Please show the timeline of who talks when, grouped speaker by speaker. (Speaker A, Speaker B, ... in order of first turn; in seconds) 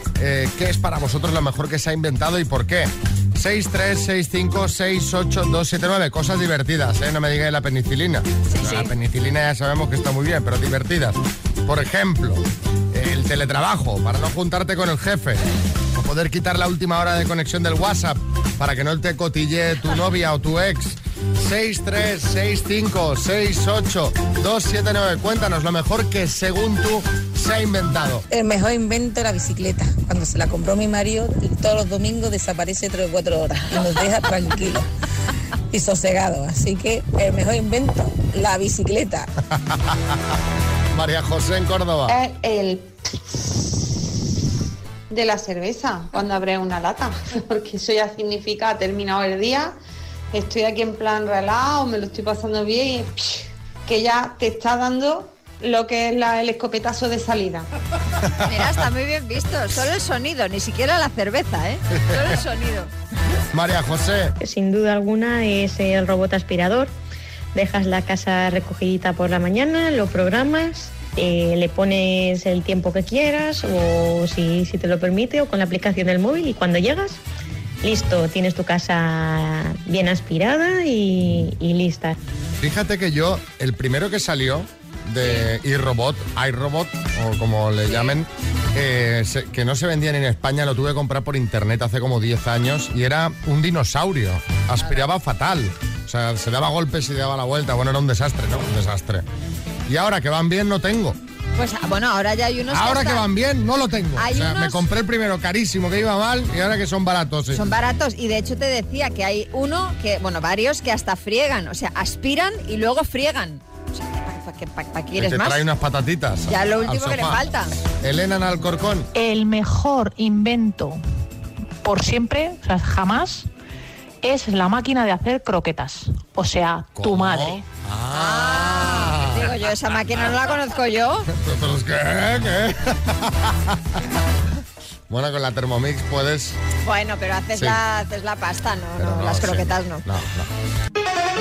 Speaker A: 0.2-28.2, 39.5-40.2, 40.9-42.1, 63.5-64.3, 82.6-99.3, 99.9-101.2, 102.7-107.7, 115.2-117.4, 117.9-119.1, 127.0-129.5, 131.3-133.8, 135.1-136.6, 137.6-137.8, 139.0-140.5
Speaker B: 8.5-8.9, 58.4-62.9, 87.9-88.2, 101.6-103.3, 104.2-104.8, 107.5-115.7, 116.5-117.7, 128.1-131.3, 136.8-140.0
Speaker C: 28.3-34.9, 35.7-39.3
Speaker D: 42.1-44.2, 45.1-49.8, 50.3-57.7
Speaker E: 64.4-66.9, 67.5-77.2, 77.8-82.2
Speaker F: 119.2-121.0, 121.8-123.5, 124.2-127.7